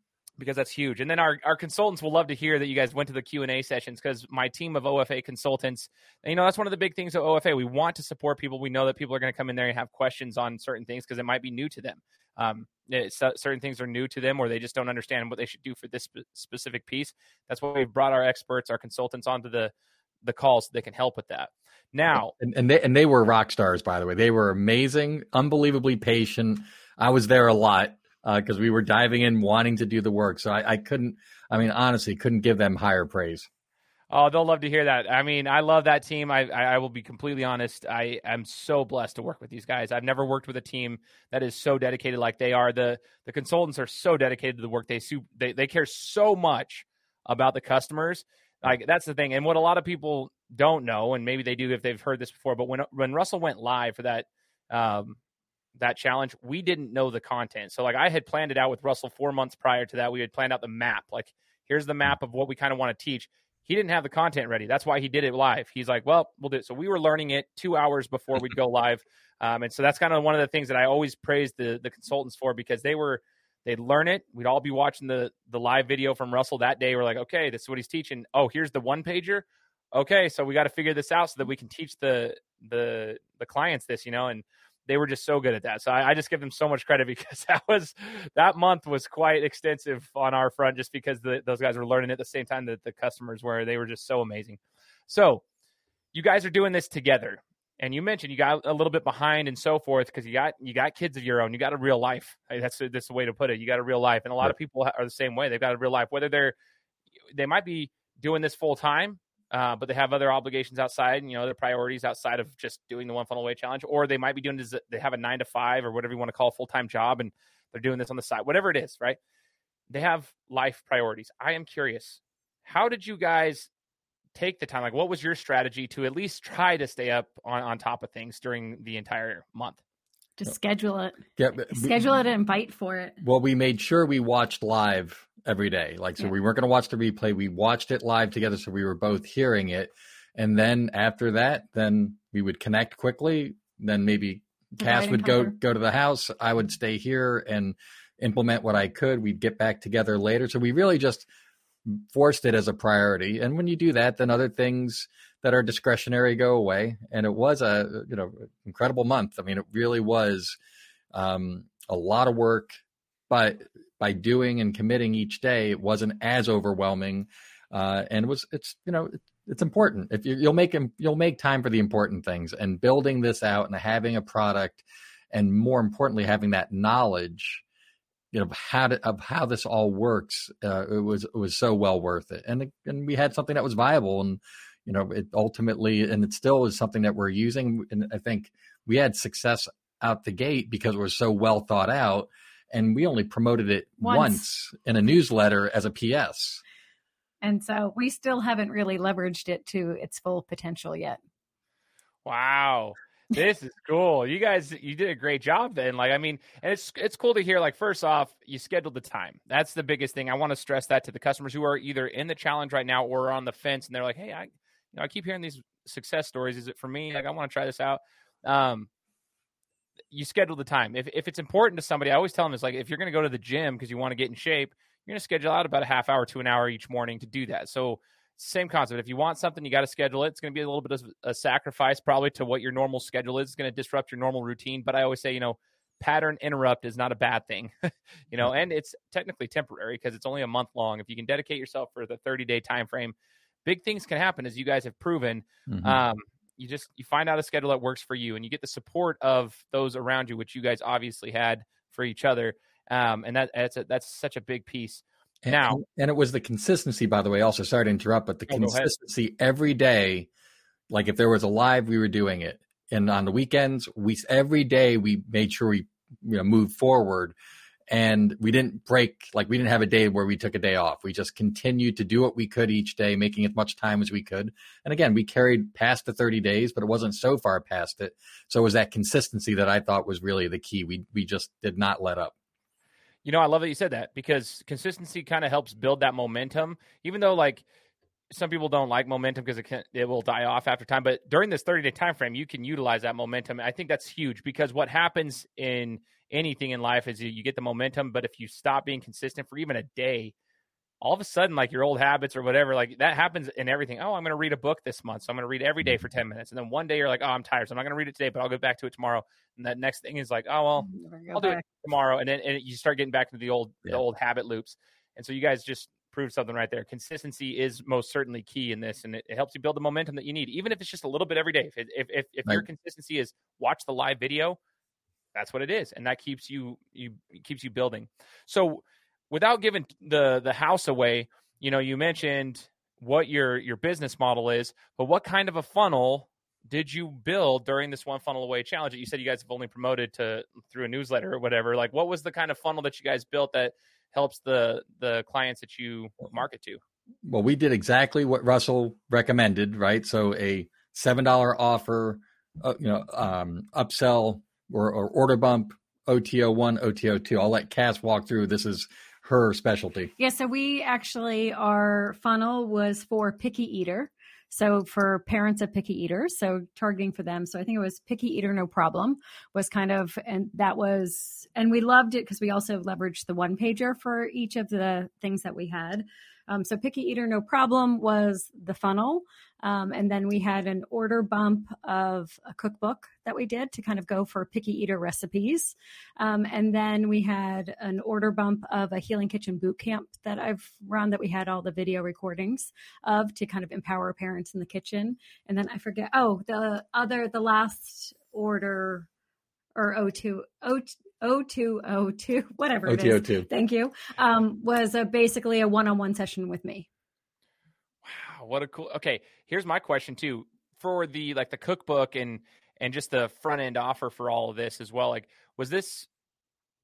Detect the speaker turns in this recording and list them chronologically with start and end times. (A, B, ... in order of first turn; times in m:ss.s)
0:00.4-0:19.7 A
0:20.2-0:22.3 A
0:22.1-0:33.5 B
0:34.1-0:55.2 A
0:55.8-1:35.4 A
1:36.1-1:46.5 A
1:47.3-1:59.2 A
1:59.9-2:03.7 A
2:04.4-2:09.8 A
2:10.4-2:13.2 C
2:11.4-2:12.1 B
2:13.2-2:31.3 B
2:24.8-2:25.5 C
2:31.9-2:40.6 B
2:41.1-2:42.8 B
2:43.3-2:57.6 B
2:58.3-3:16.6 B
3:14.0-3:14.4 C
3:17.4-3:21.2 C
3:22.2-3:38.9 A
3:40.1-4:15.8 A
4:05.7-4:06.0 B
4:15.4-4:20.3 B
4:18.5-4:18.9 A
4:20.9-4:27.3 B
4:27.9-4:42.3 B
4:43.2-4:47.6 A
4:48.3-5:00.3 A
5:01.0-5:24.6 A
5:10.8-5:11.6 C
5:25.3-5:46.8 A
5:47.2-6:00.1 B
6:00.2-6:39.1 C
6:39.8-6:46.9 C
6:42.8-6:43.5 B
6:48.0-6:56.1 A